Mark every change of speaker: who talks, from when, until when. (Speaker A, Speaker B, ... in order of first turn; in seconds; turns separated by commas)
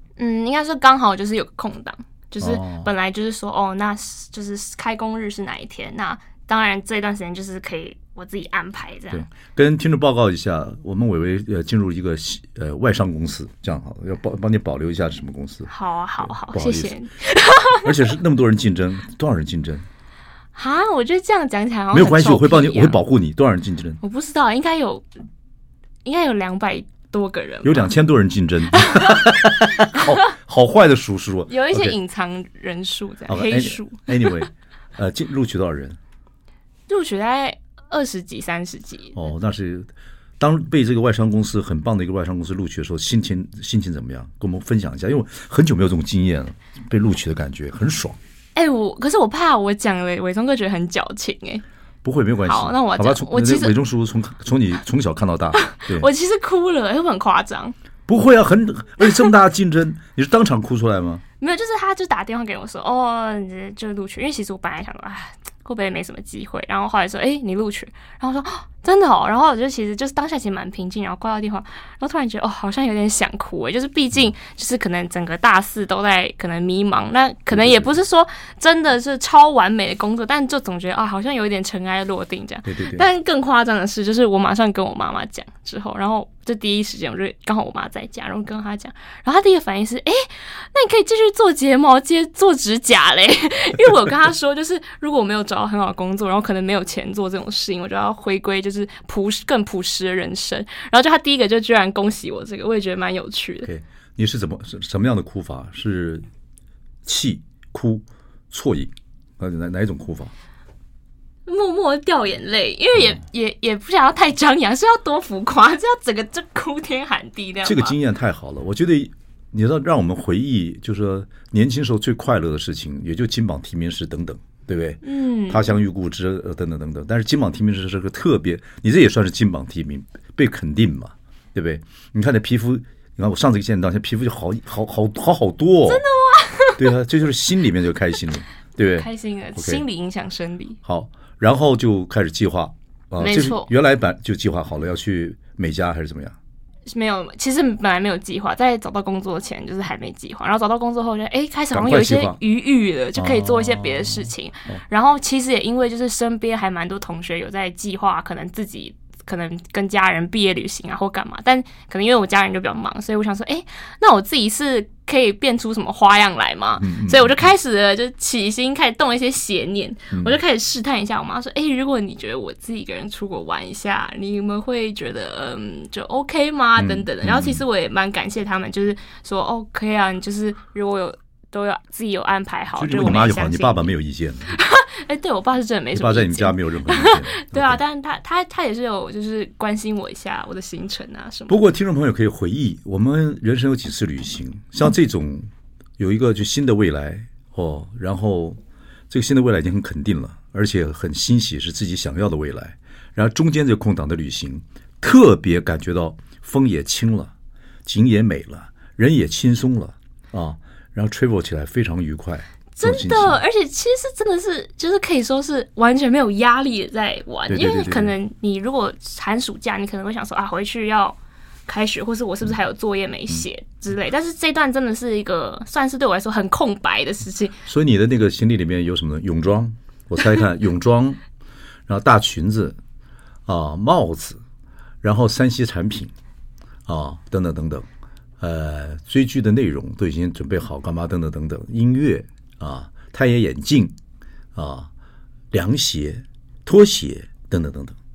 Speaker A: 0.2-9.3, Speaker B: 2.4-2.9, Speaker B: 9.1-16.9, Speaker A: 15.7-17.9, Speaker B: 17.8-19.8, Speaker A: 20.6-23.0, Speaker B: 21.9-24.0, Speaker A: 24.0-25.0, Speaker A: 26.0-27.9, Speaker B: 27.6-31.9, Speaker A: 28.7-29.4, Speaker A: 29.9-30.2, Speaker A: 31.5-34.4, Speaker B: 33.3-36.0, Speaker A: 36.9-39.1, Speaker B: 39.1-48.2, Speaker A: 48.5-51.6, Speaker B: 52.0-56.1, Speaker A: 52.4-53.7, Speaker A: 55.6-57.7, Speaker B: 58.1-61.2, Speaker A: 61.4-103.7, Speaker B: 77.5-78.0, Speaker B: 82.7-83.1, Speaker B: 103.6-106.2, Speaker B: 107.0-110.3, Speaker A: 111.5-118.0, Speaker B: 117.6-136.0, Speaker A: 125.0-125.8, Speaker A: 135.8-136.9, Speaker B: 136.8-139.8, Speaker A: 138.9-140.8, Speaker B: 140.8-146.3, Speaker A: 143.2-143.7, Speaker A: 146.9-183.9, Speaker B: 151.7-152.4, Speaker B: 153.2-154.8, Speaker B: 166.8-167.5, Speaker B: 170.1-170.4, Speaker B: 176.8-177.6, Speaker B: 182.8-184.6, Speaker A: 184.5-191.6, Speaker B: 185.9-187.8, Speaker B: 191.5-195.5, Speaker B: 196.0-198.6, Speaker B: 199.1-207.3, Speaker B: 207.8-213.4, Speaker A: 212.7-227.6, Speaker B: 217.5-218.1, Speaker B: 227.7-231.2, Speaker B: 231.9-232.8, Speaker B: 233.5-234.4, Speaker B: 235.0-236.1, Speaker B: 236.9-237.9, Speaker B: 238.4-243.9, Speaker B: 244.5-244.9, Speaker B: 245.5-247.9